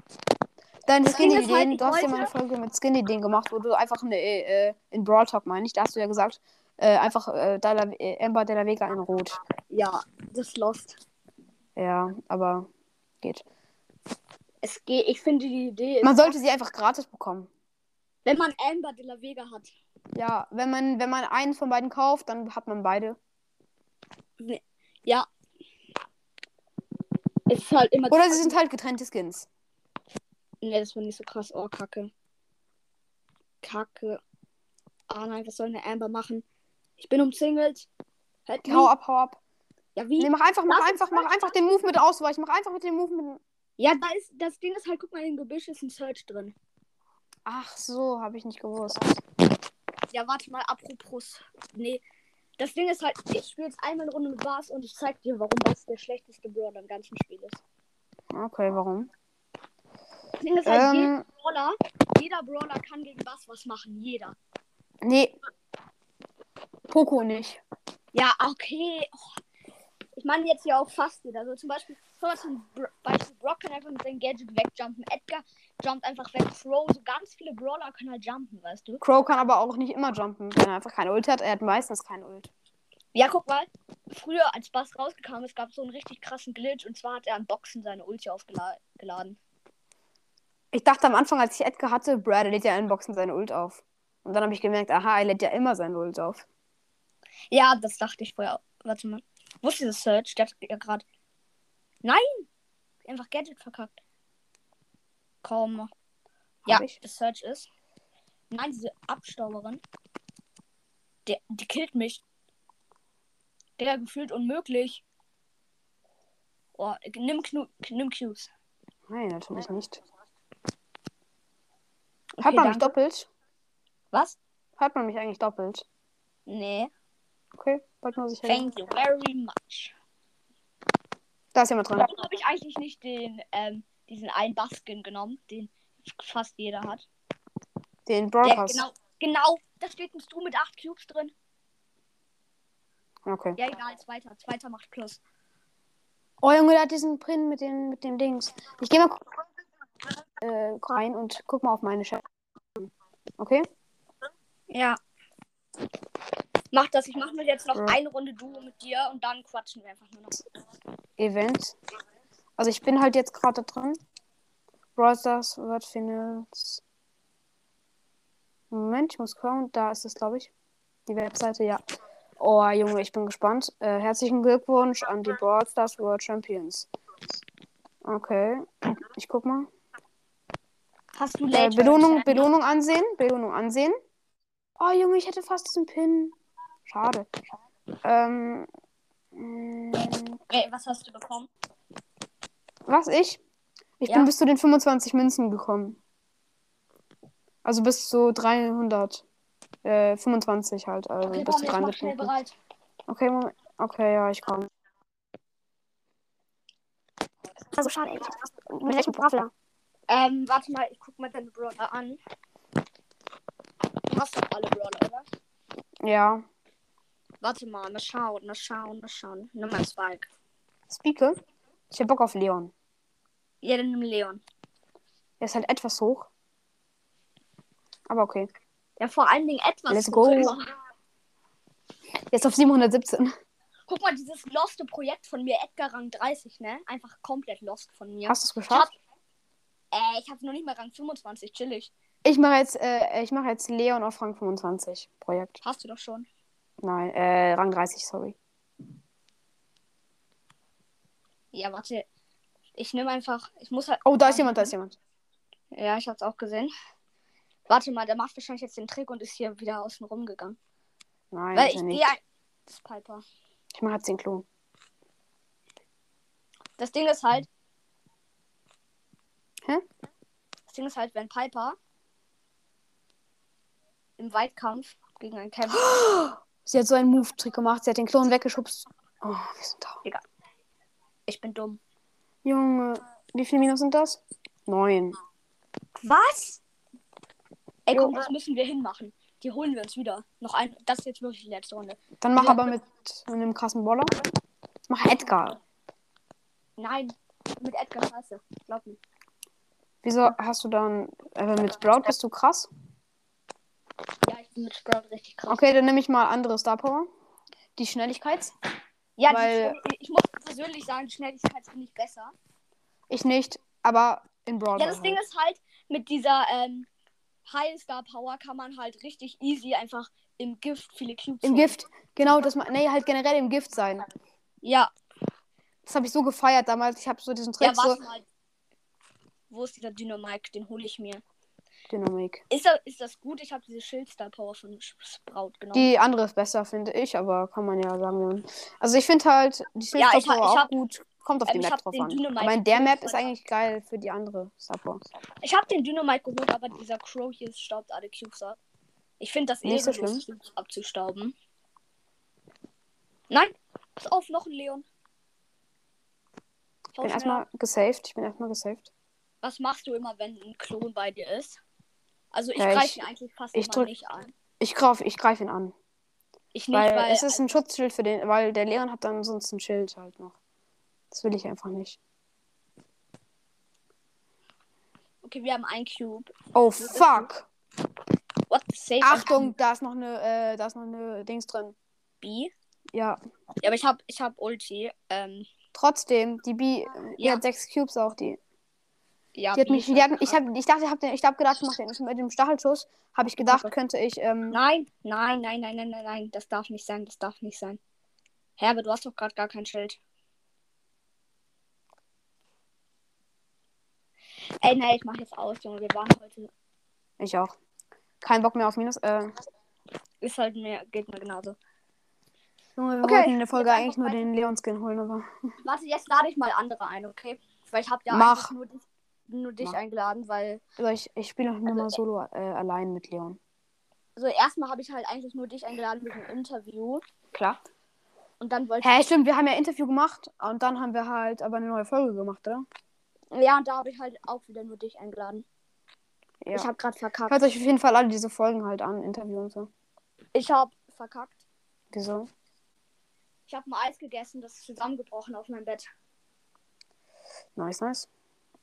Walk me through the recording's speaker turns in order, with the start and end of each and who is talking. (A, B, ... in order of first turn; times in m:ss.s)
0:00.8-0:09.4 A
0:01.0-0:02.3 B
0:09.7-0:11.0 B
0:11.8-0:12.7 A
0:14.6-0:16.3 B
0:16.0-0:17.5 A
0:18.2-0:19.7 B
0:20.1-0:23.2 A
0:24.4-0:25.3 B
0:27.5-0:28.6 B
0:28.1-0:29.5 A
0:30.6-0:32.1 B
0:33.6-0:34.2 B
0:35.1-0:36.4 B
0:37.0-0:37.9 B
0:38.5-0:38.9 B
0:38.6-0:39.4 A
0:40.0-0:41.9 B
0:40.2-0:43.4 A
0:43.8-0:46.5 B
0:47.4-0:49.2 A
0:50.1-0:52.0 B
0:52.6-0:57.6 B
0:58.3-0:59.1 A
1:00.4-1:04.4 B
1:00.6-1:01.2 A
1:05.0-1:05.4 A
1:06.9-1:07.6 A
1:08.1-1:09.4 B
1:10.2-1:19.0 B
1:19.0-1:22.5 A
1:23.1-1:29.4 B
1:30.7-1:36.4 A
1:37.5-1:41.0 B
1:42.0-1:42.5 B
1:43.0-1:44.0 B
1:45.4-1:45.9 B
1:46.6-1:47.0 A
1:46.7-1:47.7 B
1:48.5-1:49.8 B
1:51.2-1:52.2 B
1:53.8-1:55.0 B
1:56.8-1:58.5 B
1:59.1-2:00.0 A
2:02.4-2:02.9 B
2:02.4-2:03.3 A
2:04.1-2:04.4 B
2:04.8-2:05.8 A
2:06.5-2:06.9 B
2:07.5-2:08.7 A
2:08.5-2:09.9 B
2:11.5-2:12.1 A
2:12.0-2:17.0 B
2:18.0-2:18.8 A
2:18.4-2:21.3 B
2:23.2-2:23.6 A
2:23.6-2:25.2 B
2:26.4-2:29.2 A
2:30.4-2:32.2 A
2:32.8-2:33.6 A
2:34.7-2:35.0 B
2:36.7-2:40.4 B
2:41.2-2:41.8 A
2:42.6-2:44.0 A
2:45.0-2:46.8 A
2:48.7-2:50.5 A
2:51.1-2:51.8 A
2:52.4-2:56.9 A
2:58.0-2:59.7 A
3:01.2-3:02.5 B
3:01.5-3:04.0 A
3:04.8-3:06.4 A
3:06.9-3:07.3 A
3:08.0-3:08.7 A
3:09.3-3:10.4 A
3:10.5-3:11.5 B
3:12.8-3:13.4 A
3:14.0-3:16.0 A
3:17.6-3:19.2 A
3:19.8-3:22.3 A
3:21.3-3:22.5 B
3:23.1-3:24.7 A
3:27.8-3:29.5 B
3:28.8-3:29.4 A
3:30.1-3:32.2 B
3:34.1-3:35.2 B
3:36.0-3:36.4 A
3:37.4-3:40.3 B
3:40.9-3:41.4 A
3:41.9-3:42.7 A
3:43.6-3:44.4 B
3:45.4-3:46.3 A
3:48.1-3:48.5 A
3:49.0-3:50.7 B
3:49.9-3:50.6 A
3:52.3-3:53.3 A
3:53.9-3:58.9 B
3:58.3-3:58.9 A
3:59.9-4:01.9 B
4:02.2-4:05.6 A
4:05.6-4:06.3 B
4:06.8-4:08.4 A
4:11.5-4:12.1 B
4:12.8-4:14.7 B
4:14.0-4:15.0 A
4:15.7-4:16.7 B
4:17.7-4:20.6 B
4:21.3-4:22.1 A
4:21.5-4:23.2 B
4:23.7-4:24.4 A
4:26.8-4:27.5 B
4:30.7-4:31.8 B
4:34.2-4:35.9 B
4:35.7-4:40.0 A
4:41.3-4:41.8 B
4:42.4-4:45.2 A
4:46.0-4:46.6 B
4:47.9-4:52.7 B
4:47.9-4:48.2 A
4:52.2-4:54.1 A
4:54.9-4:55.6 A
4:56.8-4:59.0 B
5:00.0-5:02.7 A
5:04.2-5:05.6 B
5:05.5-5:07.1 A
5:07.8-5:08.5 A
5:09.2-5:12.3 B
5:09.3-5:09.8 A
5:13.1-5:15.2 A
5:14.8-5:16.9 B
5:17.4-5:21.8 B
5:21.4-5:24.0 A
5:24.6-5:24.9 B
5:25.8-5:28.0 A
5:27.6-5:28.2 B
5:29.5-5:31.2 B
5:31.9-5:32.4 A
5:32.5-5:35.9 B
5:35.7-5:45.0 A
5:39.9-5:40.7 B
5:41.5-5:43.3 B
5:45.4-5:48.6 B
5:49.2-5:51.3 B
5:49.6-5:50.2 A
5:53.3-5:54.8 B
5:56.9-5:57.4 B
5:57.0-5:58.9 A
5:59.4-6:01.6 B
6:02.3-6:04.3 B
6:02.6-6:03.0 A
6:03.5-6:03.9 A
6:04.6-6:05.7 A
6:06.5-6:07.5 B
6:06.7-6:10.4 A
6:11.1-6:12.0 A
6:15.2-6:17.3 B
6:16.5-6:17.5 A
6:18.5-6:19.5 B
6:19.0-6:21.7 A
6:22.2-6:22.5 B
6:22.9-6:23.2 A
6:23.6-6:25.5 B
6:25.7-6:28.4 A
6:29.4-6:30.4 B
6:29.5-6:34.6 A
6:33.4-6:33.7 B
6:34.5-6:37.8 B
6:38.6-6:40.0 B
6:44.6-6:46.5 B
6:47.2-6:47.5 A
6:48.2-6:49.3 A
6:50.2-6:51.6 B
6:52.8-6:55.3 A
6:53.0-6:54.3 B
6:55.6-7:00.6 B
6:58.1-6:58.5 A
7:00.8-7:03.4 A
7:01.7-7:02.0 B
7:04.2-7:07.0 B
7:07.3-7:07.6 A
7:08.4-7:09.1 B
7:08.8-7:12.6 A
7:13.3-7:15.4 B
7:16.4-7:16.7 A
7:16.5-7:17.5 B
7:17.3-7:19.7 A
7:20.3-7:21.4 B
7:21.9-7:22.3 A
7:23.5-7:25.9 B
7:27.6-7:28.1 A